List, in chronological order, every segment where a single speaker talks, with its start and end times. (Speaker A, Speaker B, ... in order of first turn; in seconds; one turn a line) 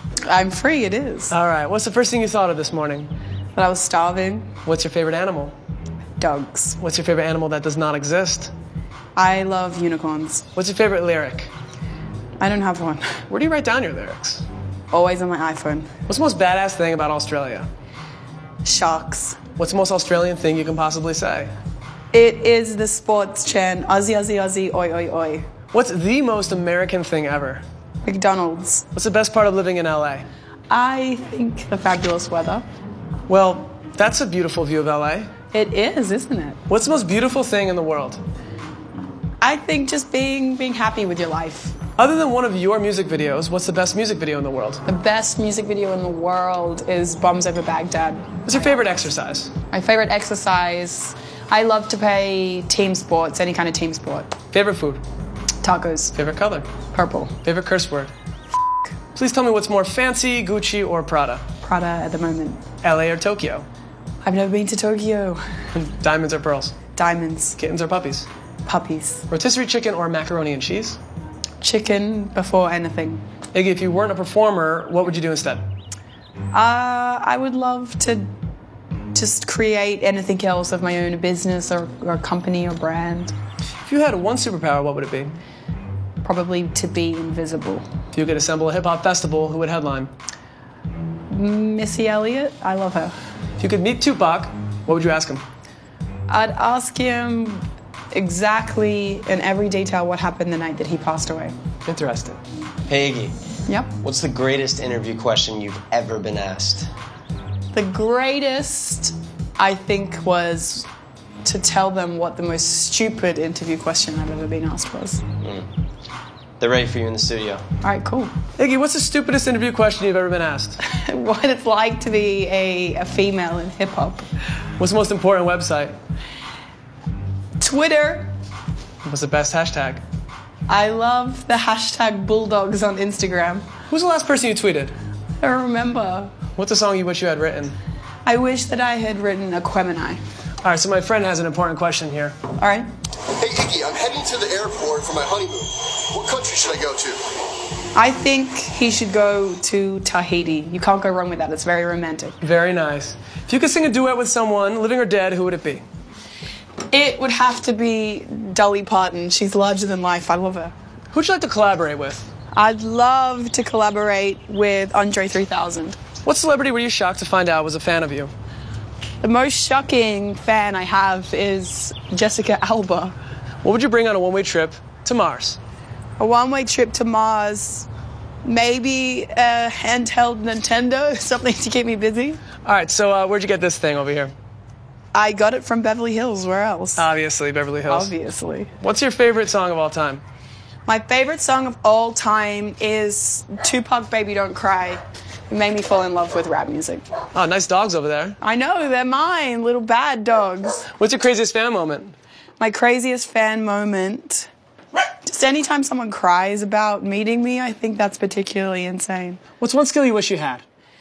Speaker A: 0.2-1.3
Speaker B: 1.3-3.1
Speaker A: 3.5-4.5
Speaker B: 4.6-5.5
Speaker A: 6.2-6.8
Speaker B: 6.8-8.5
Speaker A: 9.1-10.4
Speaker B: 10.6-11.5
Speaker A: 12.4-13.2
Speaker B: 13.3-14.4
Speaker A: 14.9-15.9
Speaker B: 16.1-17.7
Speaker A: 18.6-19.4
Speaker B: 19.6-21.5
Speaker A: 22.1-25.5
Speaker B: 25.7-27.6
Speaker A: 28.0-28.9
Speaker B: 28.9-30.2
Speaker A: 30.7-32.6
Speaker B: 33.3-35.3
Speaker A: 35.5-36.6
Speaker B: 36.7-38.2
Speaker A: 39.4-41.8
Speaker B: 42.0-44.8
Speaker A: 44.9-48.8
Speaker B: 48.4-49.5
Speaker A: 49.7-54.3
Speaker B: 54.5-55.0
Speaker A: 55.6-56.1
Speaker B: 56.1-56.7
Speaker A: 56.9-57.4
Speaker B: 57.4-58.1
Speaker B: 59.1-61.4
Speaker A: 61.6-62.6
Speaker B: 62.8-63.6
Speaker A: 64.2-65.4
Speaker B: 65.7-66.7
Speaker A: 67.0-67.6
Speaker B: 67.6-68.3
Speaker A: 68.6-69.2
Speaker B: 69.3-71.0
Speaker A: 71.6-73.2
Speaker B: 73.5-75.6
Speaker A: 76.5-78.3
Speaker A: 79.1-83.3
Speaker B: 83.8-85.3
Speaker A: 86.2-87.8
Speaker B: 88.1-90.1
Speaker A: 91.3-93.1
Speaker B: 93.6-95.4
Speaker A: 96.3-101.5
Speaker B: 101.9-102.4
Speaker C: 102.9-103.3
Speaker A: 103.7-103.9
Speaker C: 104.0-106.9
Speaker A: 107.7-110.9
Speaker A: 111.4-115.2
Speaker C: 115.4-115.7
Speaker C: 116.6-117.6
Speaker A: 117.8-118.3
Speaker B: 118.6-120.8
Speaker A: 120.8-124.2
Speaker B: 124.8-126.0
Speaker A: 127.6-128.3
Speaker B: 129.0-130.0
Speaker A: 130.7-133.7
Speaker B: 133.9-134.9
Speaker A: 135.4-136.4
Speaker B: 136.6-137.8
Speaker A: 138.2-140.2
Speaker B: 140.6-142.4
Speaker A: 142.6-142.9
Speaker D: 143.4-147.2
Speaker A: 147.9-152.4
Speaker B: 152.4-155.8
Speaker A: 156.9-160.7
Speaker B: 161.1-162.3
Speaker A: 162.5-166.0
Speaker B: 166.2-168.3
Speaker A: 169.2-173.1
Speaker B: 173.6-175.6
Speaker A: 176.2-177.9
Speaker A: 178.4-182.4
Speaker B: 182.6-184.3
Speaker A: 185.1-187.0
Speaker B: 187.0-188.1
Speaker A: 187.9-188.7
Speaker B: 188.8-190.2
Speaker A: 190.9-197.0
Speaker B: 197.3-198.4
Speaker A: 198.4-200.9
Speaker B: 201.0-202.1
Speaker A: 202.6-204.5
Speaker A: 205.2-209.4
Speaker B: 209.6-210.6